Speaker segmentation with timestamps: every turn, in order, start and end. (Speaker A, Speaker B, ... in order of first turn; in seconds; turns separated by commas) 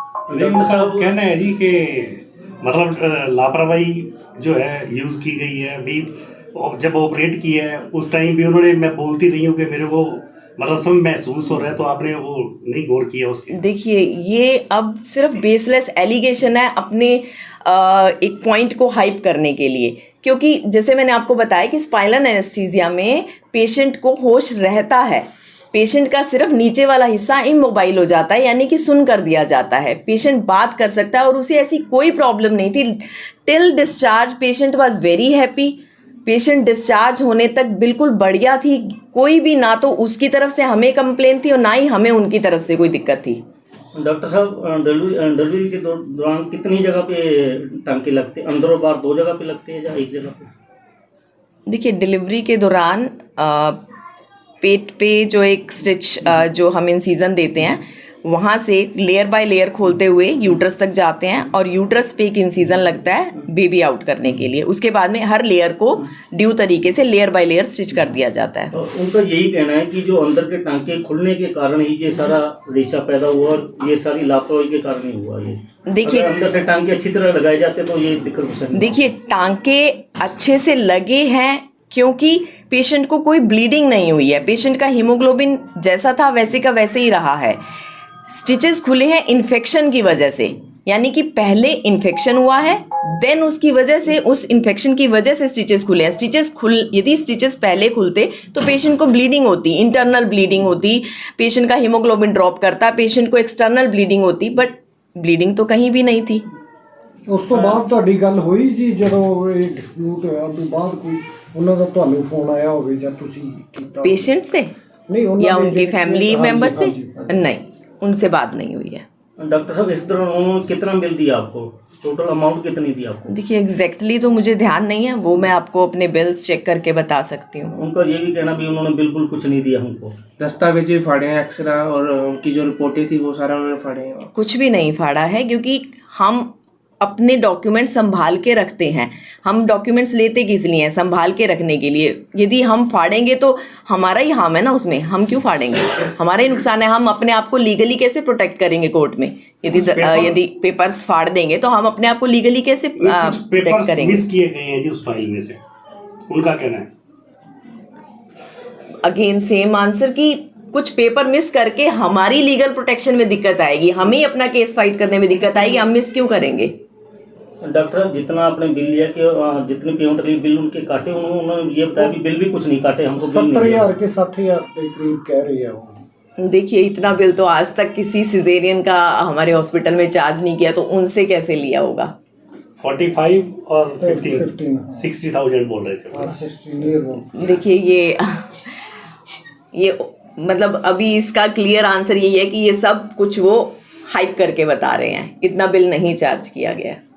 Speaker A: 0.3-1.1, Speaker B: 0.3-13.6, Speaker C: 13.5-43.4, Speaker A: 44.0-50.5, Speaker C: 51.7-53.8, Speaker C: 54.6-68.7, Speaker A: 68.7-78.9, Speaker C: 75.9-76.4, Speaker C: 78.8-87.6, Speaker C: 88.3-106.5, Speaker D: 107.3-114.3, Speaker C: 114.0-114.7, Speaker D: 115.1-117.3, Speaker C: 115.4-119.0, Speaker A: 119.4-123.3, Speaker C: 123.3-127.7, Speaker A: 127.7-130.2, Speaker E: 130.4-134.3, Speaker C: 134.3-154.3, Speaker B: 149.6-150.4, Speaker B: 153.0-155.6, Speaker B: 156.3-156.9, Speaker C: 159.0-166.8, Speaker A: 167.6-173.9, Speaker D: 173.2-176.0, Speaker C: 176.4-182.1, Speaker B: 182.8-186.4, Speaker D: 184.0-185.1, Speaker D: 186.1-187.3, Speaker C: 187.3-188.5, Speaker C: 189.7-197.0